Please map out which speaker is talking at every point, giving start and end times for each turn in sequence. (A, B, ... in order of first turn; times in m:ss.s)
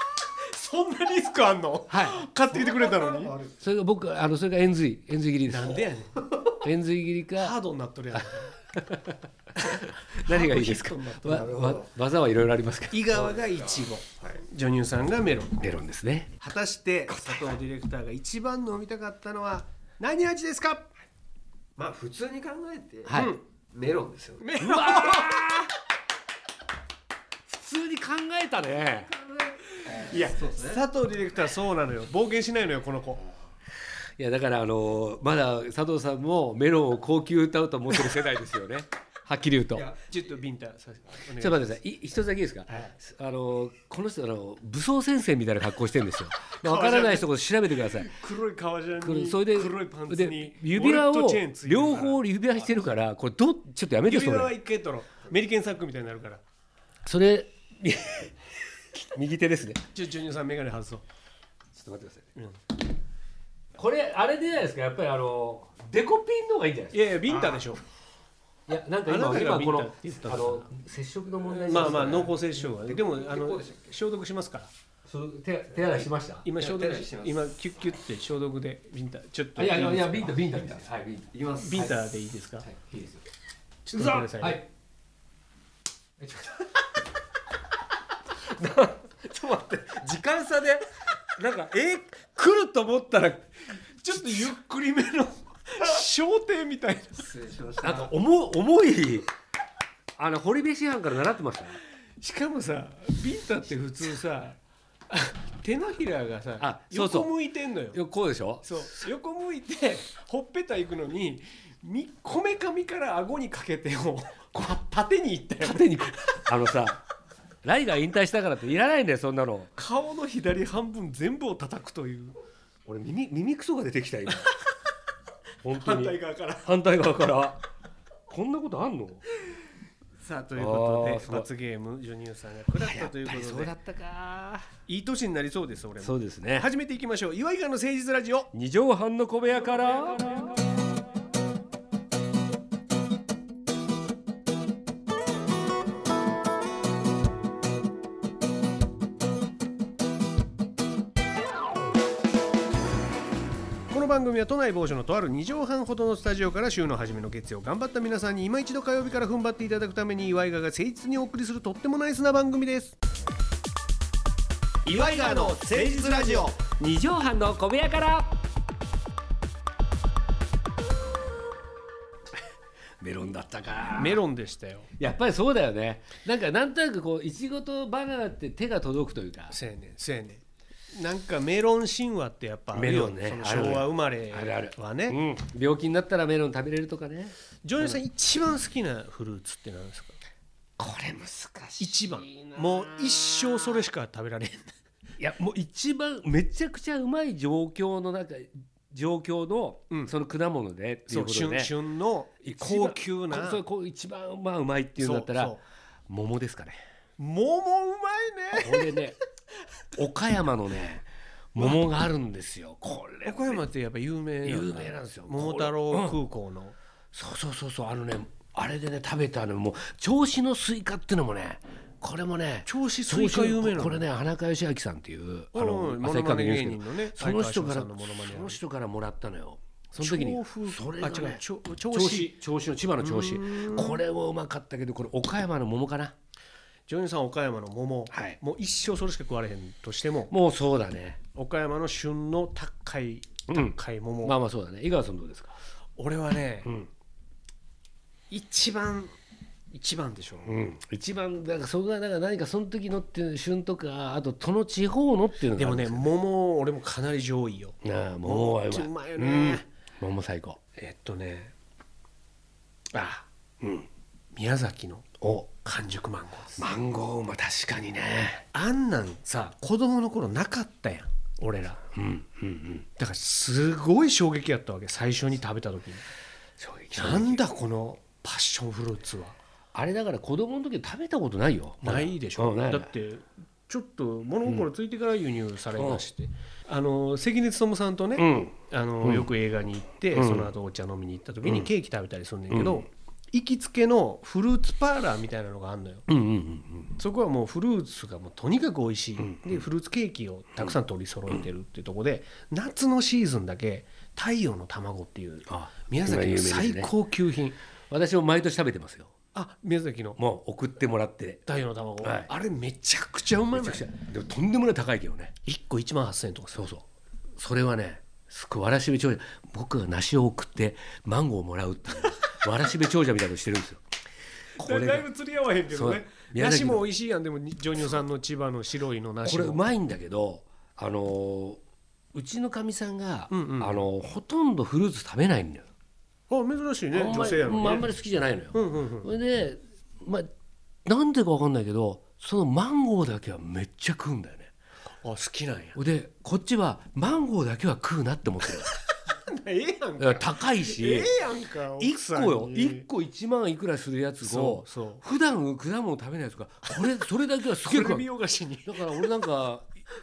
0:00.4-0:03.4 A
0:01.9-0:02.2 B
0:02.7-0:03.6 C
0:03.5-0:05.8 B
0:05.5-0:06.5 A
0:06.6-0:07.6 B
0:07.3-0:08.6 A
0:08.8-0:13.1 B
0:09.6-0:11.8 A
0:11.6-0:11.8 C
0:12.9-0:15.6 A
0:15.6-0:16.3 B
0:16.4-0:20.9 A
0:17.2-0:17.5 B
0:21.8-0:24.5 C
0:23.0-0:23.3 B
0:23.1-0:23.4 A
0:24.4-0:25.7 A
0:24.6-0:25.7 B
0:27.5-0:29.2 B
0:29.7-0:30.8 C
0:29.8-0:33.2 A
0:34.2-0:39.9 B
0:40.0-0:41.8 A
0:41.4-0:48.2 B
0:46.6-0:47.3 A
0:48.0-0:52.2 A
0:49.0-0:54.5 B
0:54.1-0:56.4 A
0:57.0-0:58.3 B
0:58.9-0:59.8 B
0:59.9-1:01.0 A
1:01.7-1:02.2 B
1:03.8-1:07.6 B
1:06.9-1:07.8 A
1:08.7-1:12.3 B
1:09.0-1:10.7 A
1:11.6-1:14.7 A
1:12.8-1:13.9 C
1:15.0-1:16.5 B
1:16.4-1:20.5 A
1:16.6-1:17.3 C
1:19.6-1:22.0 B
1:21.3-1:21.8 C
1:21.5-1:22.7 A
1:22.6-1:23.2 B
1:23.8-1:24.6 A
1:23.9-1:24.6 B
1:26.2-1:26.5 B
1:28.3-1:30.8 B
1:31.4-1:33.4 B
1:33.7-1:37.4 A
1:37.3-1:38.0 C
1:37.8-1:39.3 B
1:40.2-1:41.8 B
1:42.2-1:44.6 A
1:45.1-1:48.0 A
1:46.6-1:47.3 B
1:47.9-1:48.9 B
1:48.6-1:56.4 A
1:55.6-1:57.0 B
1:57.6-1:59.7 B
1:59.8-2:02.4 A
2:02.8-2:04.5 B
2:05.6-2:07.6 B
2:05.7-2:06.7 A
2:08.3-2:09.2 B
2:10.2-2:13.7 A
2:10.5-2:11.5 B
2:12.8-2:14.7 B
2:14.9-2:18.5 A
2:16.0-2:16.7 B
2:18.5-2:20.5 B
2:33.9-2:43.0 A
2:44.8-2:48.4 B
2:44.8-2:46.6 A
2:53.0-2:54.2 B
2:53.9-2:54.9 A
2:55.0-2:59.6 B
2:59.5-3:05.2 A
3:02.7-3:08.0 B
3:07.6-3:10.2 A
3:10.8-3:13.6 B
3:11.8-3:14.7 A
3:15.2-3:21.7 B
3:21.1-3:23.6 A
3:22.4-3:26.8 B
3:25.0-3:25.6 A
3:27.2-3:29.0 A
3:28.5-3:29.2 B
3:29.9-3:33.6 B
3:33.2-3:36.7 A
3:34.4-3:36.2 B
3:37.1-3:56.1 B
3:42.6-3:44.0 A
3:45.5-3:48.6 A
3:49.9-3:52.4 A
3:53.0-3:54.0 A
3:56.9-4:00.3 A
3:58.1-3:58.4 B
4:00.3-4:01.2 B
4:01.3-4:04.4 A
4:03.5-4:05.6 B
4:06.0-4:06.7 A
4:06.6-4:06.9 B
4:08.3-4:09.1 A
4:09.7-4:10.6 A
4:10.4-4:16.1 B
4:15.5-4:19.6 A
4:17.8-4:20.6 B
4:20.8-4:21.5 A
4:22.9-4:23.2 A
4:23.6-4:23.9 B
4:24.3-4:25.0 A
4:25.2-4:25.5 B
4:25.6-4:26.7 A
4:26.6-4:28.4 B
4:28.5-4:31.8 A
4:31.9-4:32.8 B
4:33.0-4:36.0 A
4:36.6-4:37.4 B
4:36.9-4:39.4 A
4:39.7-4:42.9 B
4:41.8-4:56.0 A
4:45.7-4:46.0 B
4:48.2-4:49.3 B
4:50.1-4:50.5 B
4:52.5-4:52.8 B
4:56.1-4:57.0 B
4:57.0-5:07.6 A
4:59.2-4:59.6 B
5:05.5-5:06.9 B
5:07.9-5:09.1 B
5:09.3-5:10.2 A
5:10.2-5:11.5 B
5:11.5-5:13.9 A
5:12.0-5:12.3 B
5:13.5-5:15.3 B
5:15.4-5:16.6 A
5:16.5-5:16.8 B
5:17.4-5:23.8 B
5:24.6-5:29.6 A
5:24.6-5:25.0 B
5:25.7-5:26.8 B
5:29.2-5:31.6 B
5:32.1-5:35.6 B
5:33.3-5:33.8 A
5:36.3-5:37.9 A
5:36.9-5:40.3 B
5:38.5-5:39.1 A
5:40.8-5:44.5 B
5:45.0-5:45.8 A
5:45.7-5:48.7 B
5:49.1-5:52.9 A
5:50.0-5:51.1 B
5:51.8-5:58.1 B
5:54.2-5:55.0 A
5:57.6-5:59.2 A
5:58.6-5:59.7 B